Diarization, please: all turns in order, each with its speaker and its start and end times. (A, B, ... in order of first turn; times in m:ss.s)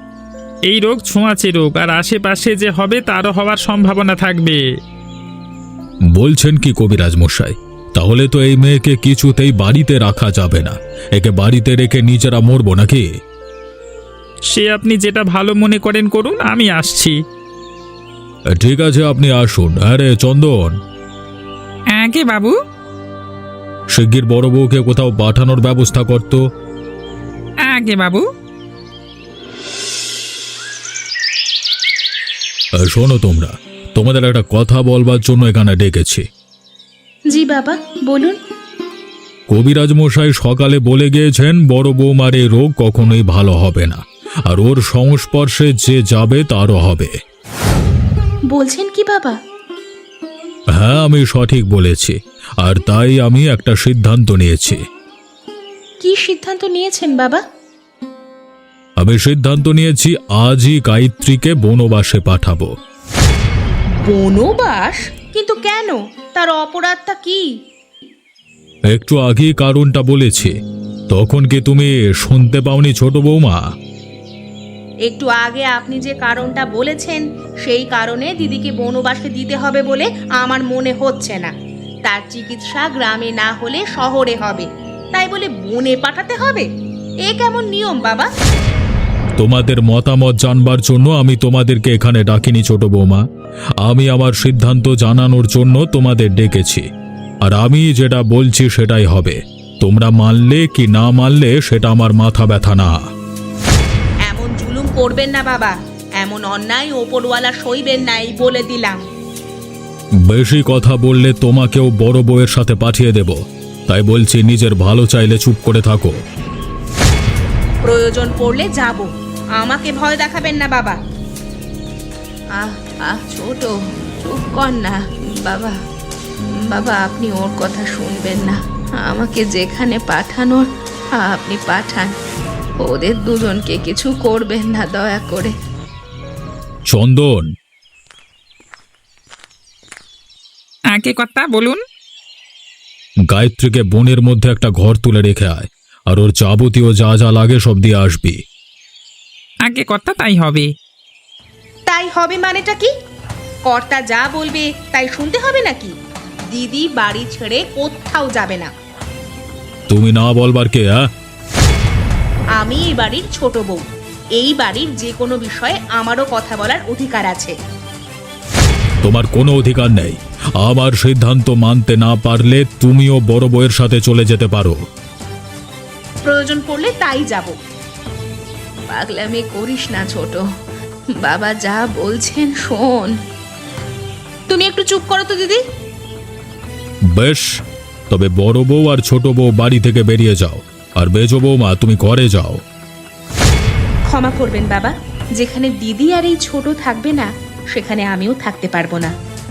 0:00.7-0:04.6 A
0:06.2-0:13.1 B
0:14.5-0:17.2 A
0:18.6-0:20.8 B
0:22.0-0:22.6 A
0:24.0-0:26.4 B
0:27.7-0:28.3 A
0:32.9-0:36.2 B
0:37.3-0:38.4 C
0:39.5-0:47.1 B
0:48.5-0:49.4 C
0:50.8-0:54.8 B
0:56.0-0:57.4 C
0:59.0-1:02.7 B
1:04.0-1:07.4 C
1:08.9-1:10.6 B
1:11.1-1:13.6 B
1:15.1-1:21.5 C
1:22.1-1:26.7 C
1:27.2-1:28.3 C
1:29.4-1:33.2 B
1:33.8-1:36.9 B
1:37.4-1:43.0 B
1:44.3-1:49.0 C
1:50.3-1:56.2 B
1:57.8-2:01.0 C
2:02.6-2:05.8 C
2:06.6-2:10.7 C
2:11.2-2:12.1 C
2:12.8-2:15.5 C
2:16.9-2:17.5 B
2:20.9-2:21.8 A
2:23.3-2:28.4 B
2:29.7-2:30.7 A
2:31.9-2:32.9 C
2:33.7-2:35.9 C
2:36.5-2:38.7 C
2:39.9-2:41.1 B
2:42.6-2:43.8 C
2:44.4-2:47.6 C
2:49.0-2:54.8 B
2:56.3-2:57.5 C
2:58.9-3:00.4 C
3:01.2-3:03.2 C
3:04.5-3:05.6 C
3:07.2-3:07.5 B
3:08.1-3:12.6 B
3:14.1-3:19.1 C